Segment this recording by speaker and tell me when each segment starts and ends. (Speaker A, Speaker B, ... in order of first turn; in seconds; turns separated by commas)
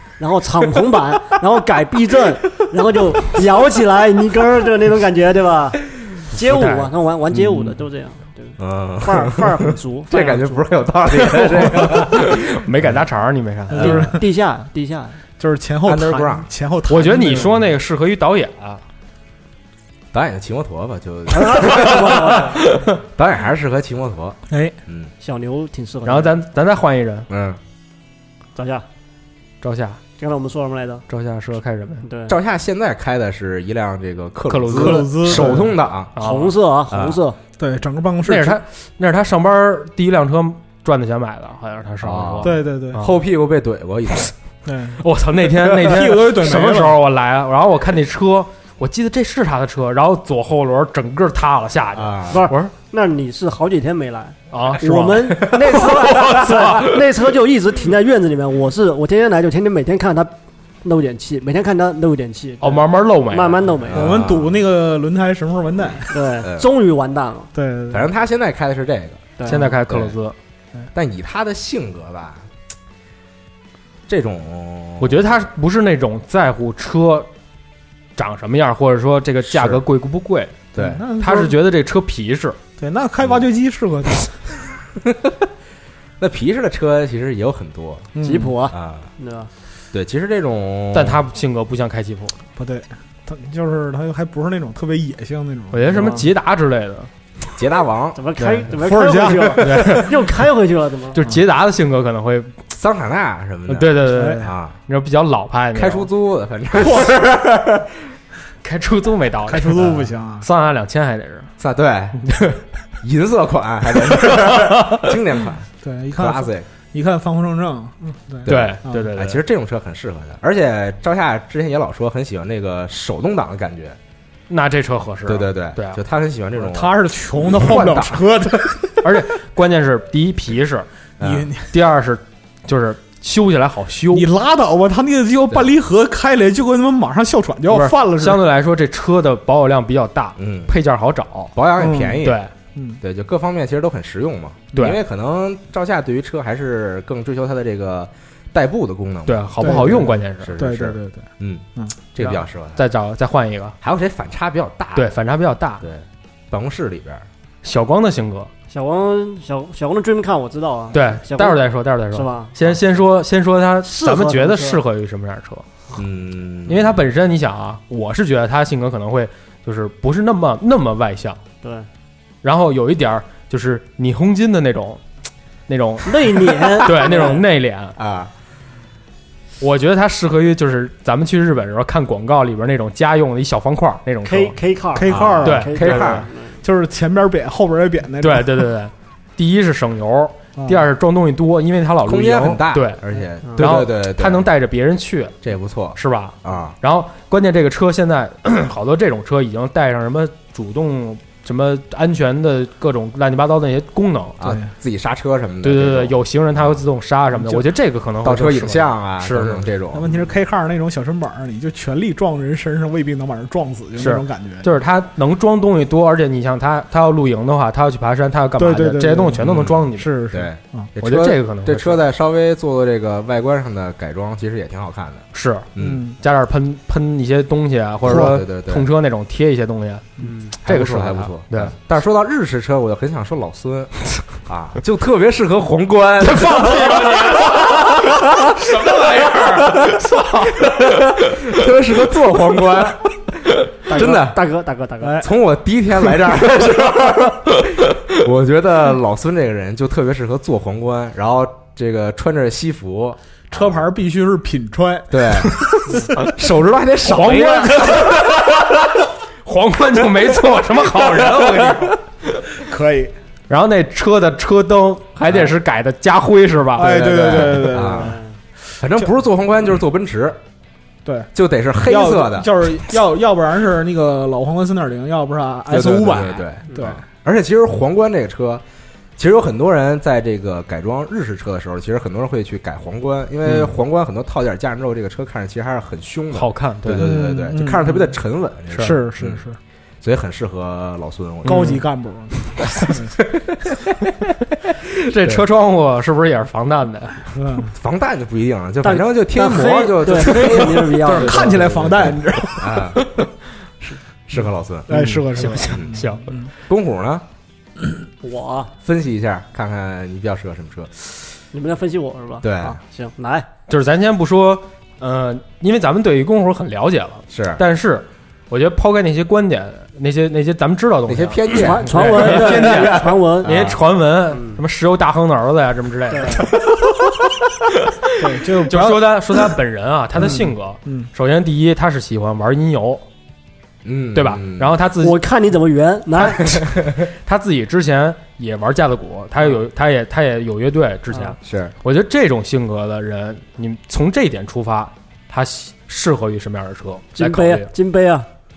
Speaker A: 0.2-10.7, Speaker B: 6.3-6.9, Speaker C: 8.6-13.0, Speaker B: 11.3-14.1, Speaker D: 13.7-14.2, Speaker A: 13.8-15.2, Speaker D: 15.4-17.5, Speaker C: 15.8-16.5, Speaker B: 16.9-18.8, Speaker C: 20.1-22.4, Speaker A: 21.3-22.6, Speaker C: 23.1-25.1, Speaker D: 24.5-24.8, Speaker A: 25.2-26.4, Speaker B: 26.0-27.3, Speaker C: 27.3-27.6, Speaker A: 28.6-28.8, Speaker B: 29.6-30.0, Speaker A: 30.2-31.0, Speaker B: 31.1-32.0, Speaker A: 32.0-32.4, Speaker C: 32.3-36.1, Speaker B: 34.5-36.5, Speaker D: 34.7-35.7, Speaker A: 36.2-37.4, Speaker C: 36.9-37.2, Speaker D: 37.6-38.6, Speaker B: 38.2-43.1, Speaker C: 42.0-44.3, Speaker D: 42.4-43.0, Speaker D: 44.6-45.0, Speaker B: 45.0-52.7, Speaker D: 45.6-47.0, Speaker C: 51.9-52.4, Speaker A: 52.3-64.1, Speaker B: 54.5-57.0, Speaker B: 62.6-63.7, Speaker C: 63.9-64.5, Speaker D: 63.9-66.1, Speaker A: 66.1-67.5, Speaker D: 67.5-68.0, Speaker C: 67.9-69.2, Speaker B: 69.5-70.3, Speaker C: 69.9-70.2, Speaker C: 70.9-72.5, Speaker C: 74.1-75.4, Speaker B: 75.0-77.3, Speaker B: 78.2-82.6, Speaker C: 79.5-79.8, Speaker C: 80.7-81.0, Speaker D: 80.8-81.6, Speaker D: 82.8-84.5, Speaker C: 86.2-88.1, Speaker D: 88.1-88.5, Speaker A: 88.2-89.5, Speaker C: 88.7-89.1, Speaker C: 89.9-91.2, Speaker B: 90.9-92.3, Speaker D: 92.6-96.3, Speaker B: 95.7-97.1, Speaker C: 97.5-98.2, Speaker A: 98.1-101.2, Speaker D: 98.8-100.1, Speaker B: 99.6-100.1, Speaker B: 101.2-102.6, Speaker C: 102.7-104.7, Speaker B: 103.7-106.1, Speaker D: 104.1-104.4, Speaker C: 105.7-108.1, Speaker B: 108.6-111.5, Speaker D: 109.5-110.5, Speaker C: 111.6-112.2, Speaker B: 112.2-112.6, Speaker C: 113.0-116.7, Speaker B: 114.0-115.1, Speaker D: 115.8-119.1, Speaker C: 118.4-124.0, Speaker B: 118.5-119.4, Speaker B: 124.5-126.0, Speaker C: 125.3-128.5, Speaker D: 126.6-129.0, Speaker B: 129.0-130.9, Speaker C: 131.2-131.5, Speaker D: 131.2-131.7, Speaker B: 131.7-134.3, Speaker D: 134.1-138.4, Speaker B: 137.7-141.5, Speaker C: 140.4-140.8, Speaker C: 141.5-142.4, Speaker D: 141.8-143.0, Speaker B: 142.2-142.5, Speaker C: 143.0-152.8, Speaker B: 144.7-145.0, Speaker B: 149.3-150.6, Speaker D: 149.6-151.2, Speaker B: 152.2-153.8, Speaker C: 153.8-155.1, Speaker B: 154.9-155.8, Speaker C: 155.8-157.2, Speaker B: 157.6-158.5, Speaker A: 158.7-162.6, Speaker B: 160.9-165.6, Speaker A: 163.8-164.8, Speaker C: 165.9-167.0, Speaker B: 166.7-171.4, Speaker A: 171.6-171.9, Speaker B: 172.4-175.0, Speaker B: 175.7-177.9, Speaker A: 176.0-177.4, Speaker C: 178.0-178.3, Speaker B: 179.6-184.6, Speaker A: 184.2-186.6, Speaker D: 184.9-188.7, Speaker C: 185.1-186.3, Speaker B: 185.4-186.0, Speaker B: 188.2-193.0, Speaker D: 190.6-190.8, Speaker C: 192.0-194.5, Speaker B: 193.6-195.4, Speaker C: 195.4-196.8, Speaker B: 195.9-204.4, Speaker C: 204.4-206.8, Speaker B: 205.6-209.7, Speaker C: 208.2-210.2, Speaker D: 209.9-214.7, Speaker B: 214.0-220.2, Speaker D: 218.6-220.9, Speaker C: 219.4-225.2, Speaker B: 221.0-222.0, Speaker B: 225.3-230.1, Speaker C: 225.7-226.0, Speaker D: 225.8-226.2, Speaker C: 228.0-228.9, Speaker D: 228.1-228.4, Speaker A: 230.2-230.5, Speaker C: 230.6-244.4, Speaker B: 230.6-231.8, Speaker B: 236.2-241.4, Speaker A: 243.9-245.2, Speaker D: 243.9-244.2, Speaker D: 245.0-245.3, Speaker C: 245.2-253.8, Speaker D: 253.5-256.1, Speaker C: 255.1-258.4, Speaker B: 257.0-262.0, Speaker C: 261.4-261.8, Speaker D: 262.6-263.1, Speaker B: 263.5-267.8, Speaker D: 266.7-268.2, Speaker C: 266.8-268.2, Speaker A: 268.0-268.3, Speaker C: 268.8-270.4, Speaker D: 271.0-271.3, Speaker C: 271.3-272.7, Speaker D: 271.8-277.0, Speaker C: 275.7-278.6, Speaker C: 279.2-289.4, Speaker B: 286.3-287.2, Speaker D: 287.0-288.1, Speaker D: 288.7-289.6, Speaker C: 290.0-291.8, Speaker B: 291.4-291.8, Speaker D: 291.4-293.1, Speaker B: 295.0-297.3, Speaker C: 295.2-295.4, Speaker D: 297.4-297.7, Speaker C: 297.7-303.1, Speaker A: 298.8-301.5, Speaker D: 300.3-302.8, Speaker C: 304.3-304.9, Speaker D: 304.9-306.5, Speaker B: 304.9-306.3, Speaker C: 305.7-306.0, Speaker C: 306.6-307.2, Speaker A: 308.2-308.7, Speaker C: 308.8-311.1, Speaker A: 311.5-313.5, Speaker C: 312.4-312.8, Speaker B: 313.7-326.7, Speaker C: 317.3-317.6, Speaker C: 321.1-323.8, Speaker A: 321.5-323.7, Speaker A: 324.3-324.6, Speaker A: 326.1-326.5, Speaker D: 328.2-329.1, Speaker B: 328.6-333.0, Speaker D: 330.2-331.1, Speaker C: 333.8-334.8, Speaker B: 334.1-335.2, Speaker A: 335.0-336.6, Speaker C: 336.6-336.9, Speaker B: 336.9-347.7, Speaker C: 341.4-341.7, Speaker A: 347.1-348.3